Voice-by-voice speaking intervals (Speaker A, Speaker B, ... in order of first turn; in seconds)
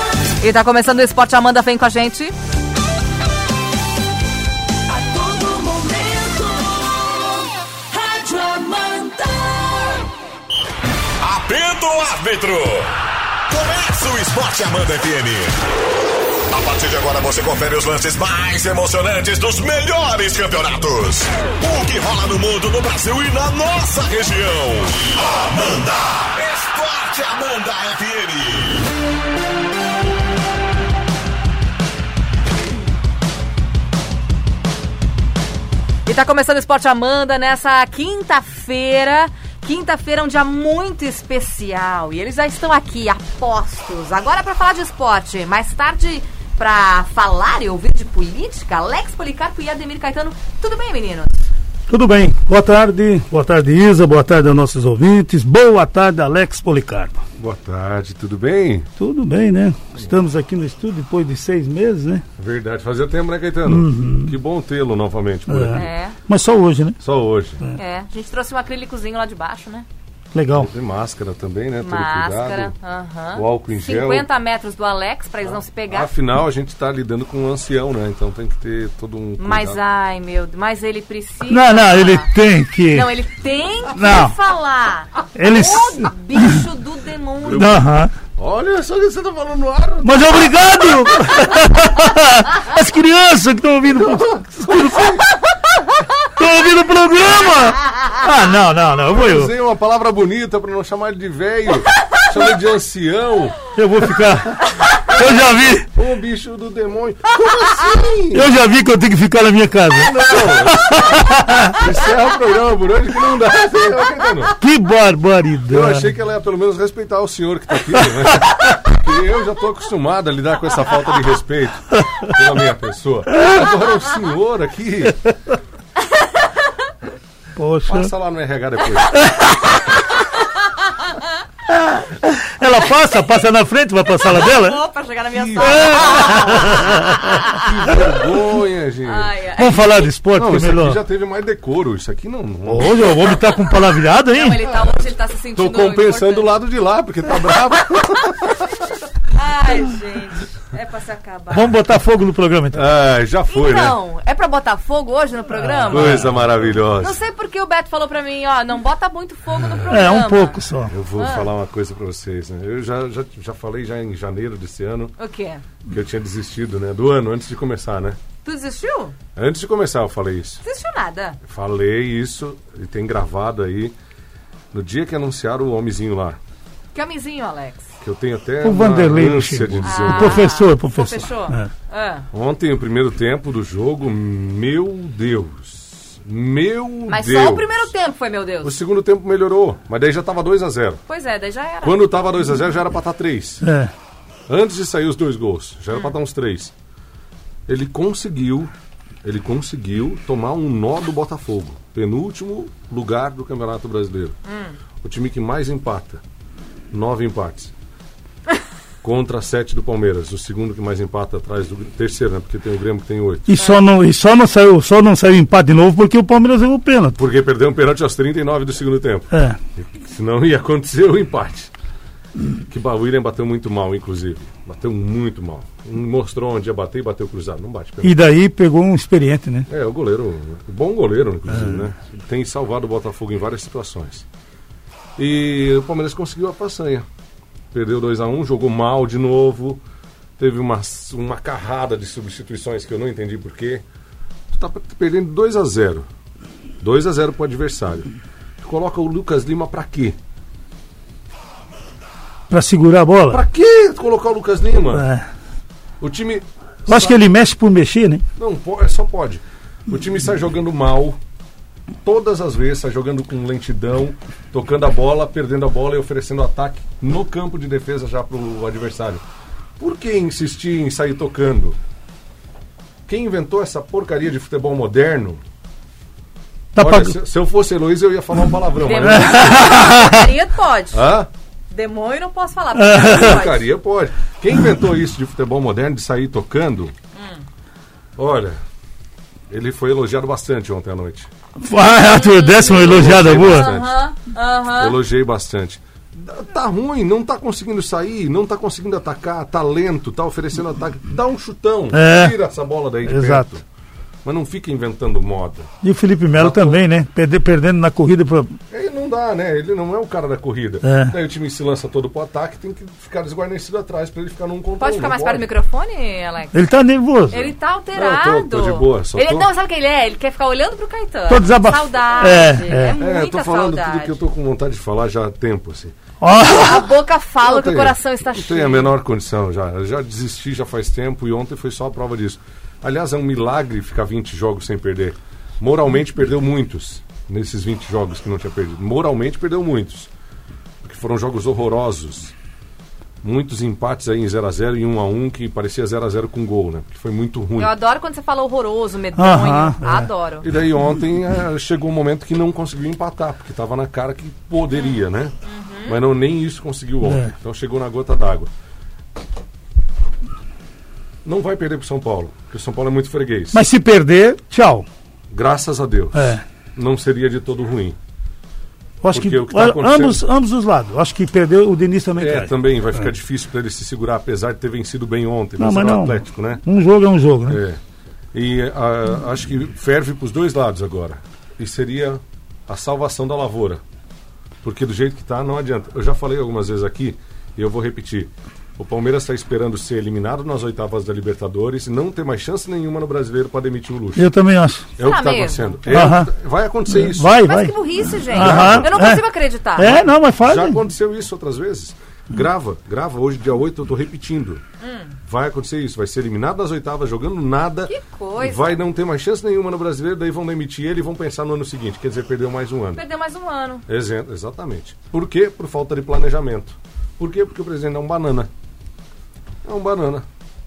Speaker A: 0.4-2.3, 36.0-51.5, 65.7-66.2, 67.8-69.9, 71.8-76.1, 79.4-82.3, 82.9-87.8, 134.3-137.7, 139.1-140.1, 144.3-146.5, 149.3-151.8, 153.5-156.3, 157.0-160.6, 161.2-161.5, 165.2-165.6, 168.4-169.2, 170.6-171.4, 176.9-177.9, 179.8-182.2, 187.1-188.8, 191.1-192.1, 204.5-204.8, 213.6-213.8, 278.8-281.0, 281.7-283.7, 287.2-287.4, 292.1-294.9, 314.8-316.5, 317.3-324.2, 326.4-328.9, 347.6-350.5, 354.7-355.9, 395.0-395.9, 397.4-400.1, 404.8-405.1, 407.9-408.8, 412.9-413.9
Speaker B: 4.9-10.1
Speaker C: 11.2-12.9, 13.5-15.6, 16.5-28.9
Speaker D: 51.9-57.2, 59.0-62.2, 63.6-64.3, 65.5-67.0, 70.3-70.7, 81.5-83.1, 84.0-84.3, 85.4-86.6, 87.6-88.1, 90.0-95.2, 96.4-99.5, 103.8-105.9, 108.3-111.8, 114.6-116.1, 127.6-128.1, 131.7-134.8, 135.6-137.2, 139.6-141.0, 142.7-144.6, 151.5-152.8, 155.5-156.3, 159.9-160.9, 178.6-181.7, 193.6-193.9, 213.5-217.2, 219.3-219.6, 228.0-229.7, 231.5-231.8, 252.5-253.4, 254.9-255.2, 256.9-258.2, 276.8-277.1, 279.0-280.2, 282.8-283.4, 291.6-293.7, 301.9-302.3, 303.1-303.4, 305.8-308.5, 310.8-311.1, 316.5-317.5, 321.3-323.0, 326.2-326.9, 349.2-350.1, 357.0-357.3, 363.5-364.9, 366.1-366.4, 369.0-373.1, 375.6-377.6, 394.2-394.9, 395.9-396.3, 396.9-397.8, 398.2-399.2, 399.8-400.8
Speaker E: 57.4-58.9, 62.4-65.8, 67.0-67.6, 70.5-72.7, 73.3-74.3, 75.5-79.8, 87.4-87.8, 88.4-90.8, 93.9-95.3, 99.1-103.6, 105.9-108.5, 110.0-114.6, 115.7-125.2, 127.9-129.3, 135.5-136.8, 137.5-139.3, 140.3-143.3, 145.6-148.7, 152.7-154.0, 155.9-157.2, 160.9-165.1, 165.9-168.2, 169.3-170.6, 171.5-173.9, 174.7-176.4, 178.0-180.5, 182.3-187.9, 188.6-191.0, 191.8-193.6, 194.5-196.7, 197.7-198.7, 199.2-204.4, 205.0-206.2, 206.9-207.7, 209.0-213.5, 217.2-221.7, 222.7-228.2, 229.7-234.2, 235.2-237.0, 237.7-239.8, 240.4-243.8, 244.5-246.1, 246.8-248.1, 248.6-250.2, 253.3-255.1, 256.0-257.2, 258.4-261.2, 262.0-269.2, 269.8-271.8, 273.1-275.4, 276.8-279.9, 280.9-281.3, 283.0-286.9, 288.2-288.6, 289.5-291.3, 292.6-294.0, 294.8-303.6, 304.2-305.7, 306.3-306.8, 308.7-315.5, 317.9-319.5, 323.0-325.9, 327.4-340.1, 340.8-342.3, 343.2-347.7, 350.4-355.4, 355.9-358.5, 361.2-363.6, 365.3-367.9, 369.1-370.2, 372.2-376.6, 377.5-377.8, 378.3-383.8, 384.6-394.3, 395.0-397.4, 398.3-398.9, 400.4-404.6, 405.2-413.0, 413.9-418.5, 419.6-420.2